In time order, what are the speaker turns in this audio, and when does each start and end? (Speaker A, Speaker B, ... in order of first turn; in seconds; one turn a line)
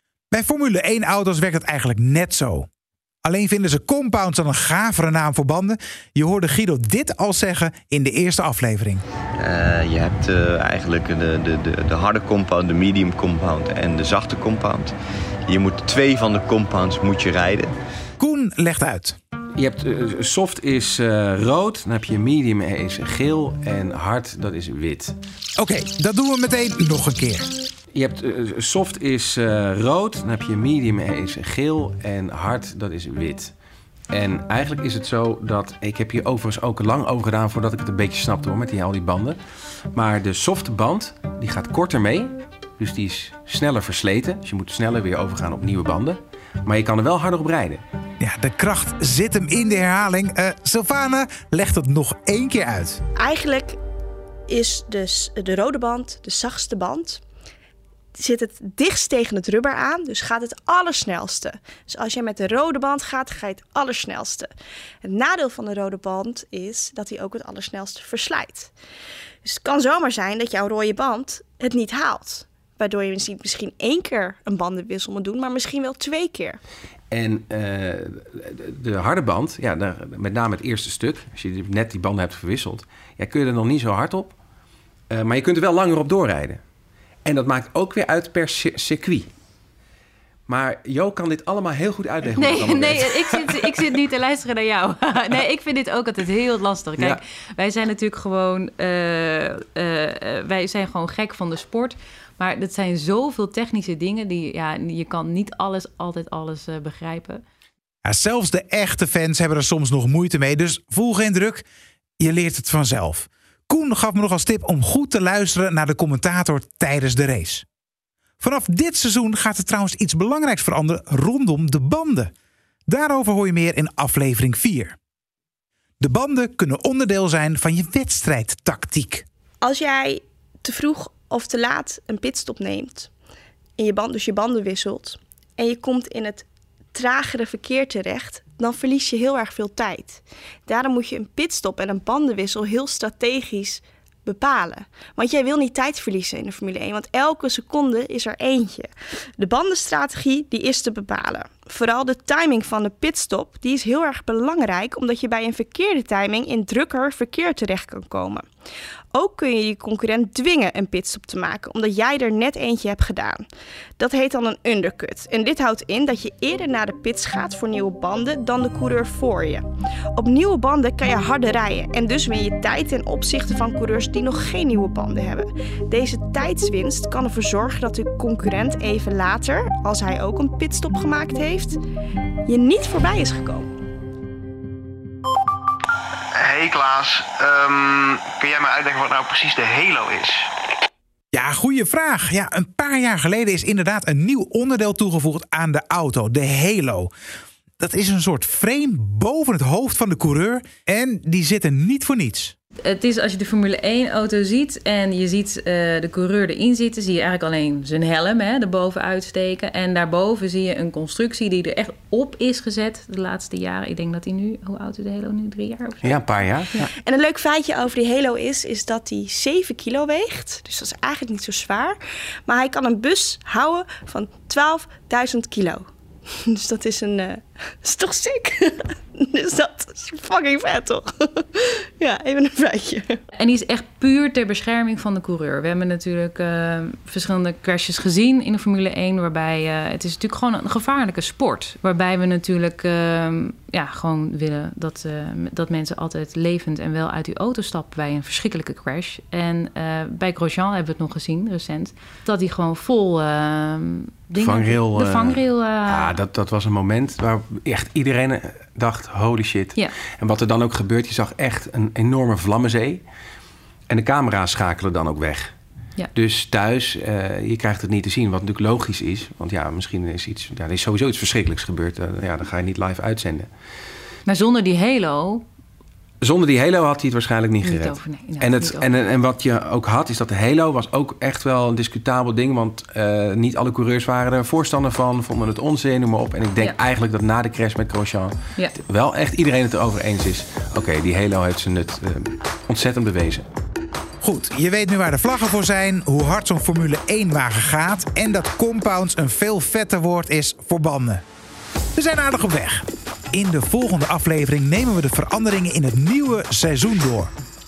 Speaker A: 0.3-2.7
Speaker A: 3.2-9.0
Speaker B: 9.4-14.9
Speaker B: 15.5-17.7
Speaker A: 18.2-19.2
Speaker C: 19.6-25.2
Speaker A: 25.6-27.5
Speaker C: 27.9-33.5
Speaker C: 34.1-39.4
Speaker C: 39.9-47.8
Speaker A: 48.2-53.0
Speaker D: 53.2-53.8
Speaker D: 54.5-57.2
Speaker D: 58.2-64.5
Speaker D: 65.0-68.7
Speaker D: 69.5-76.6
Speaker C: 77.1-84.3
Speaker C: 85.1-86.6
Speaker C: 87.2-89.3
Speaker C: 90.5-93.7
Speaker E: 92.3-107.4
Speaker A: 108.0-111.7
Speaker A: 112.2-117.7
Speaker A: 118.4-122.3
Speaker A: 122.9-125.0
Speaker A: 126.0-129.2
Speaker D: 129.6-133.1
Speaker D: 133.8-158.4
Speaker D: 159.1-163.4
Speaker D: 164.0-181.8
Speaker D: 182.5-183.7
Speaker F: 186.3-190.5
Speaker A: 191.3-197.1
Speaker A: 197.8-202.5
Speaker E: 202.8-216.9
Speaker C: 216.0-216.9
Speaker D: 216.8-225.8
Speaker D: 226.4-233.2
Speaker E: 233.3-256.2
Speaker C: 254.4-263.0
Speaker C: 263.9-265.5
Speaker C: 266.1-273.5
Speaker E: 274.2-275.4
Speaker C: 276.2-293.4
Speaker E: 277.6-278.9
Speaker A: 294.2-301.2
Speaker A: 301.9-307.3